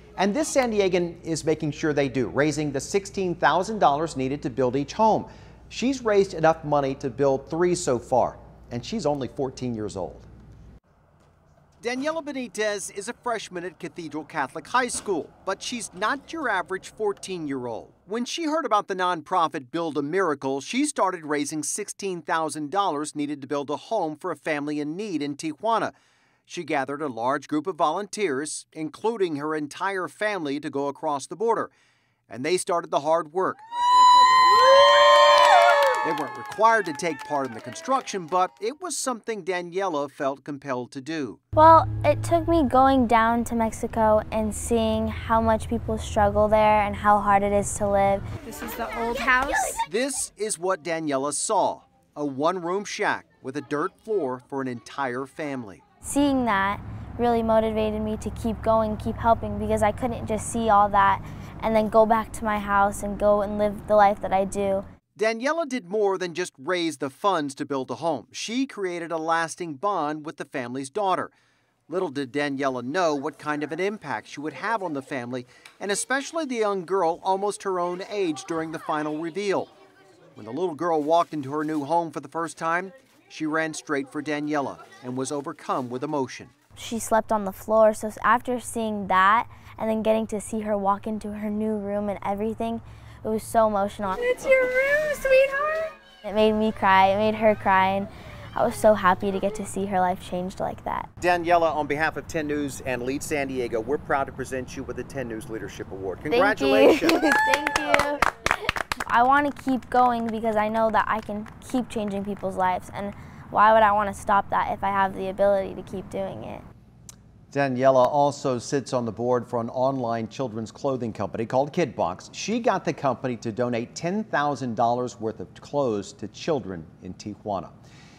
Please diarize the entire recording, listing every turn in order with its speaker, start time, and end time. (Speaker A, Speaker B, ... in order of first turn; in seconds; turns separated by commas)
Speaker A: 0.2-10.3, Speaker A: 11.8-25.9, Speaker A: 26.5-31.7, Speaker A: 32.3-33.6, Speaker A: 36.0-41.4, Speaker B: 41.5-48.2, Speaker C: 48.5-49.8, Speaker A: 49.8-55.8, Speaker B: 56.0-64.8, Speaker A: 65.2-71.3, Speaker A: 71.9-79.7, Speaker A: 80.4-86.5, Speaker B: 86.8-101.1, Speaker C: 94.8-95.8, Speaker A: 101.2-107.3, Speaker B: 106.3-108.2, Speaker B: 109.1-116.7, Speaker A: 117.5-127.7